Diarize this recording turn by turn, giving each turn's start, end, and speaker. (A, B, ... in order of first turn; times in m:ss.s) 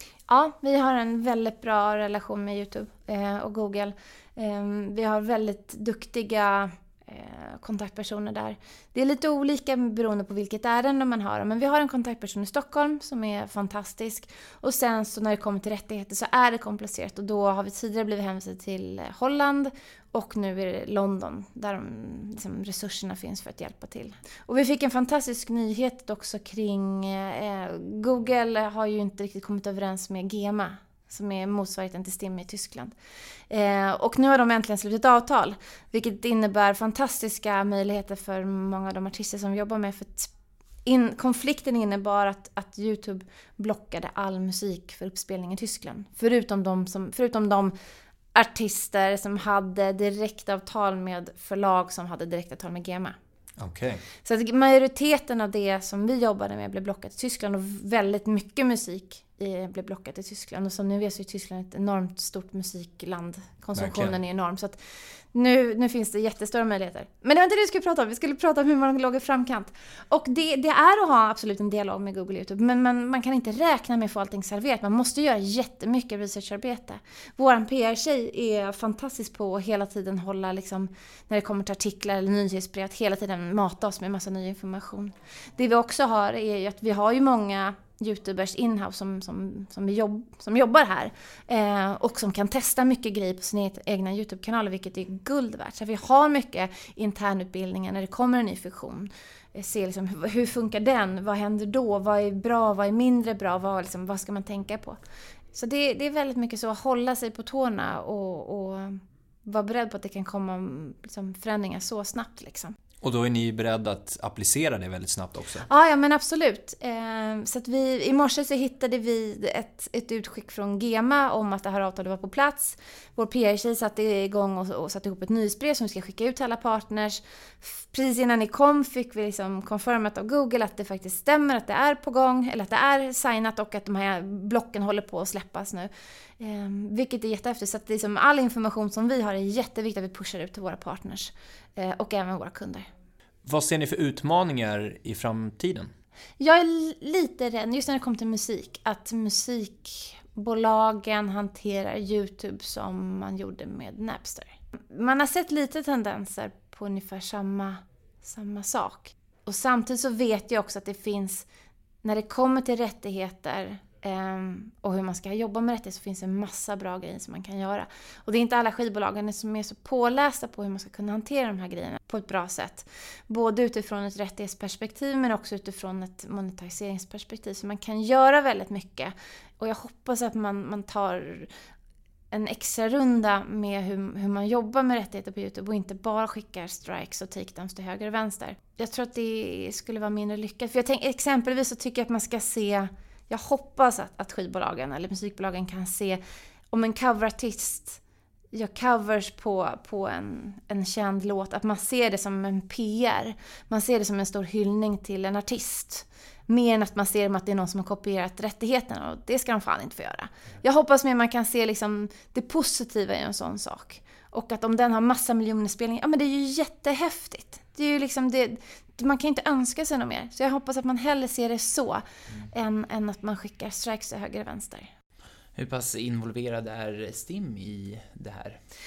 0:00.3-0:32.9 A
0:33.5-0:40.3 A
0:40.8-0:47.7 A
0:48.3-0:53.2 A
0:53.6-0:54.0 B
0:54.2-1:04.8 A
1:03.8-1:04.2 B
1:05.3-1:45.0 A
1:45.5-1:52.8 A
1:53.0-1:55.7 B
1:55.7-2:22.9 A
2:23.4-2:25.9 B
2:26.4-2:41.4 A
2:42.0-3:01.5 A
3:02.3-3:16.2 A
3:16.7-3:18.0 A
3:18.5-3:44.9 A
3:45.6-3:48.6 C